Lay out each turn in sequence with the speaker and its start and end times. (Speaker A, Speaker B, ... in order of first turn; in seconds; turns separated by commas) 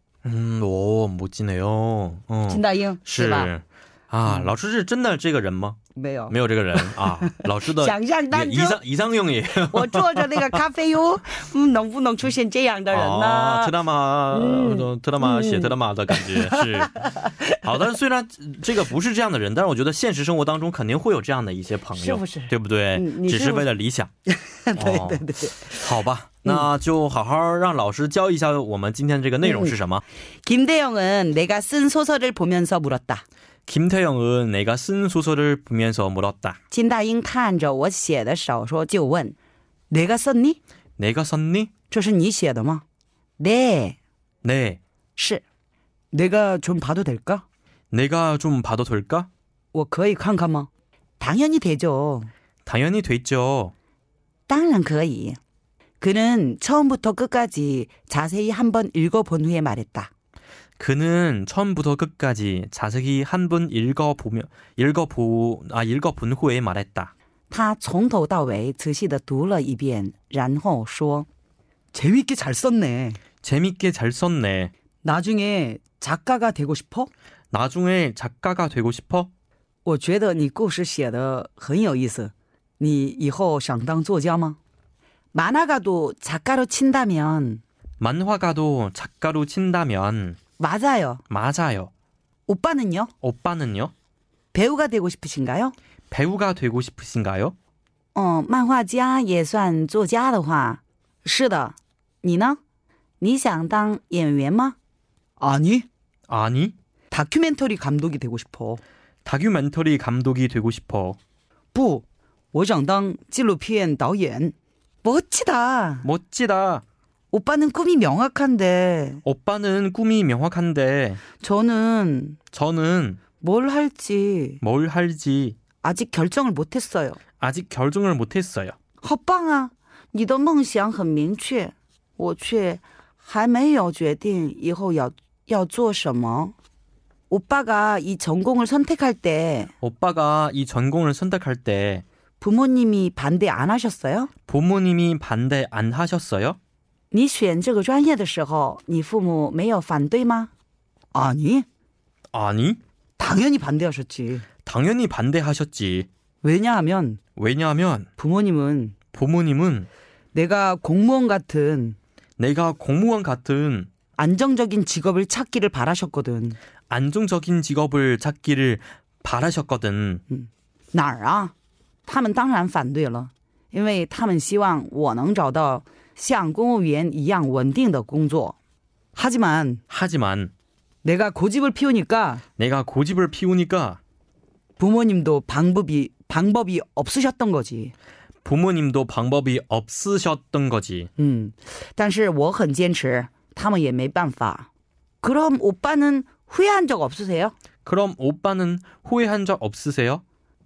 Speaker A: 0.2-5.8, Speaker B: 2.5-3.5, Speaker B: 4.2-4.5, Speaker B: 5.9-8.8, Speaker A: 6.3-10.6, Speaker B: 9.6-13.8, Speaker A: 12.9-16.9, Speaker B: 14.3-17.7, Speaker A: 17.6-24.1, Speaker B: 21.9-23.6, Speaker B: 24.3-25.9, Speaker A: 24.8-30.0, Speaker B: 29.4-29.8, Speaker B: 30.4-33.2, Speaker A: 33.7-36.6, Speaker B: 36.7-39.4, Speaker B: 39.9-40.6, Speaker A: 41.0-41.7, Speaker B: 41.9-42.8, Speaker B: 43.4-44.0, Speaker A: 44.4-44.8, Speaker B: 45.1-45.4, Speaker B: 46.1-47.4, Speaker A: 47.9-49.3, Speaker B: 49.7-50.7, Speaker B: 51.2-52.3, Speaker A: 52.6-53.7, Speaker B: 54.5-55.4, Speaker B: 56.0-60.1, Speaker A: 60.8-67.1, Speaker B: 67.5-71.3, Speaker B: 71.9-73.2, Speaker A: 73.4-74.7, Speaker B: 75.0-77.1, Speaker A: 77.5-79.3, Speaker B: 79.8-84.6, Speaker B: 85.3-87.6, Speaker A: 88.0-90.4, Speaker B: 90.6-91.2, Speaker A: 91.3-91.9, Speaker B: 92.5-93.1, Speaker A: 93.2-93.9, Speaker B: 94.5-95.7, Speaker A: 96.1-97.5, Speaker B: 98.1-102.6, Speaker B: 103.2-104.8, Speaker B: 105.4-105.9, Speaker A: 106.3-106.7, Speaker B: 107.1-108.8, Speaker A: 109.2-111.2, Speaker B: 111.7-116.0, Speaker A: 116.0-116.8, Speaker B: 117.3-119.2, Speaker A: 119.2-121.2, Speaker B: 121.4-122.4, Speaker A: 122.5-123.2, Speaker B: 123.3-124.6, Speaker A: 124.6-125.6, Speaker B: 125.8-127.2, Speaker A: 127.4-128.8, Speaker B: 129.0-136.5, Speaker B: 137.3-139.7, Speaker A: 139.8-142.0, Speaker B: 142.4-144.3, Speaker A: 144.5-146.6, Speaker B: 147.1-150.5, Speaker B: 151.1-151.7, Speaker A: 152.3-152.8, Speaker B: 153.2-154.4, Speaker A: 154.7-156.1, Speaker B: 156.4-157.2, Speaker A: 157.3-158.1, Speaker B: 158.2-159.0, Speaker A: 159.1-159.9, Speaker B: 160.3-161.9, Speaker A: 162.4-163.9, Speaker B: 164.2-166.6, Speaker A: 166.9-170.2, Speaker B: 170.3-171.5, Speaker B: 172.1-178.6, Speaker B: 179.1-179.8, Speaker A: 179.9-180.5, Speaker B: 181.0-182.4, Speaker A: 182.6-184.0, Speaker B: 184.8-187.9, Speaker A: 188.4-191.1, Speaker B: 191.2-194.7, Speaker B: 195.2-197.5, Speaker A: 197.8-200.2